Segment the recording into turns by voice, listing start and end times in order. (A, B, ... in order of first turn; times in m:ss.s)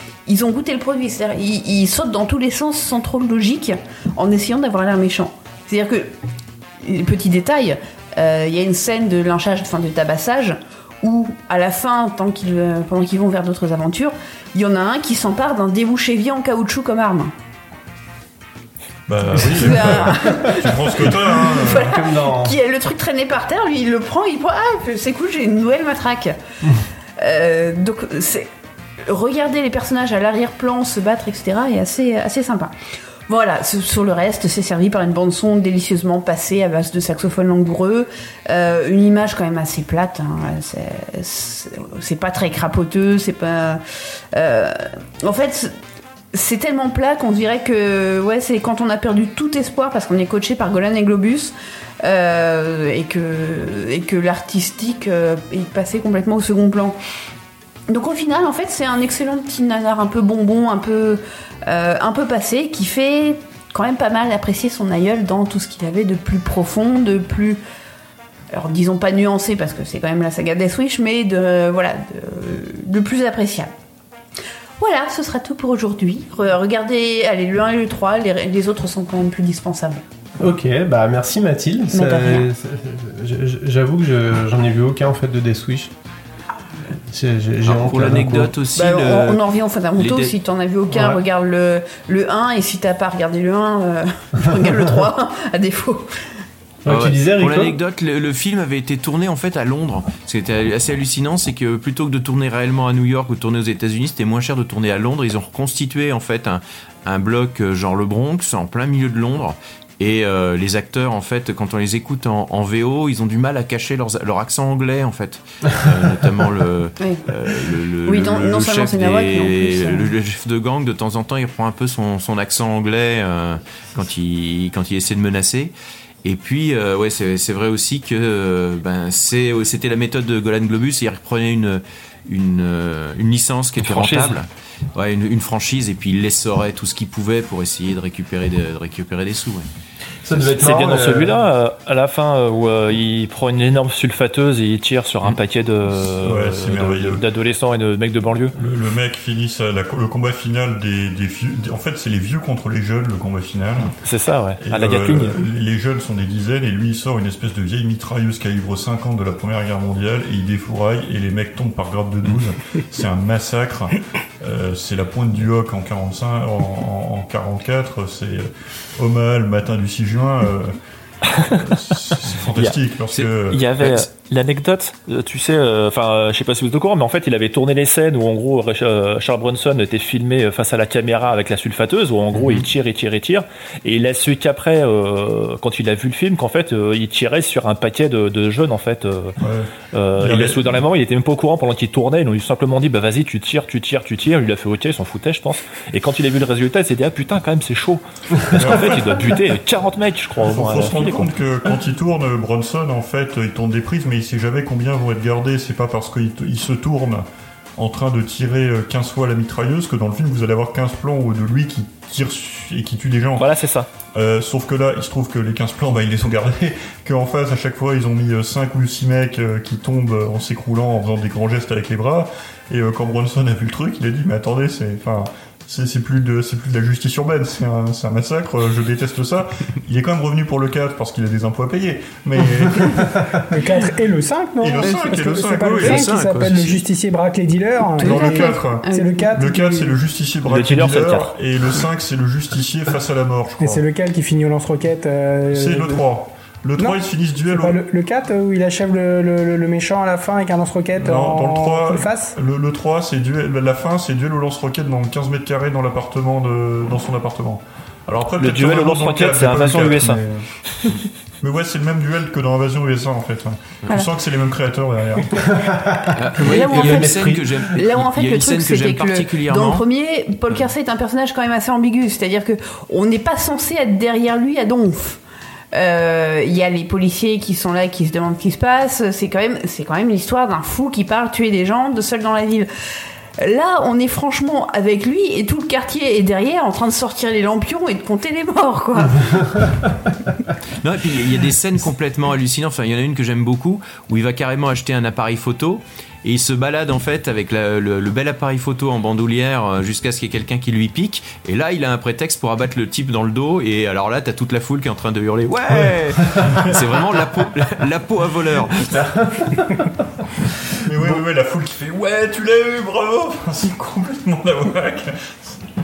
0:00.2-0:06.1 A
0:06.8-0:17.3 A
0:19.1-0:21.9 B
0:19.3-0:22.5 C
0:19.4-0:26.4 A
0:27.2-0:28.5 A
0:29.0-0:32.7 A
0:33.3-0:43.8 A
0:44.3-0:45.7 A
0:46.3-0:57.0 A
0:57.9-1:07.6 A
1:08.5-1:13.7 A
1:14.8-1:20.0 A
1:20.4-1:25.9 C
1:21.9-1:22.5 A
1:27.1-1:28.5 C
1:27.6-1:29.4 D
1:28.7-1:36.2 A
1:30.0-1:30.3 D
1:30.9-1:31.2 C
1:36.8-1:37.8 C
1:36.9-2:05.7 D
1:58.0-2:00.1 A
2:06.2-2:19.6 D
2:13.8-2:14.4 E
2:20.2-2:21.4 C
2:20.6-2:28.5 E
2:26.2-2:27.2 B
2:28.6-2:33.9 B
2:34.0-2:35.4 E
2:34.6-2:50.8 B
2:51.3-2:51.6 E
2:51.5-2:53.6 B
2:52.5-3:09.4 E
3:09.4-3:10.6 B
3:09.9-3:21.3 E
3:18.5-3:19.3 B
3:20.4-3:33.5 B
3:33.4-3:33.9 E
3:34.1-3:53.1 B
3:53.5-4:00.0 F
3:54.6-3:56.1 B
3:54.8-3:55.2 A
3:55.8-3:56.8 D
3:58.0-3:59.2 A
3:58.0-4:03.8 B
4:00.4-4:01.3 E
4:03.6-4:06.0 F
4:05.5-4:07.8 B
4:07.5-4:12.3 F
4:11.0-4:20.4 B
4:18.4-4:20.2 E
4:21.4-4:25.6 B
4:25.5-4:27.6 C
4:26.1-4:29.8 D
4:26.4-4:35.2 A
4:35.7-4:42.7 A
4:43.4-4:49.5 A
4:50.8-5:08.9 D
5:08.9-5:09.8 C
5:10.8-5:15.6 B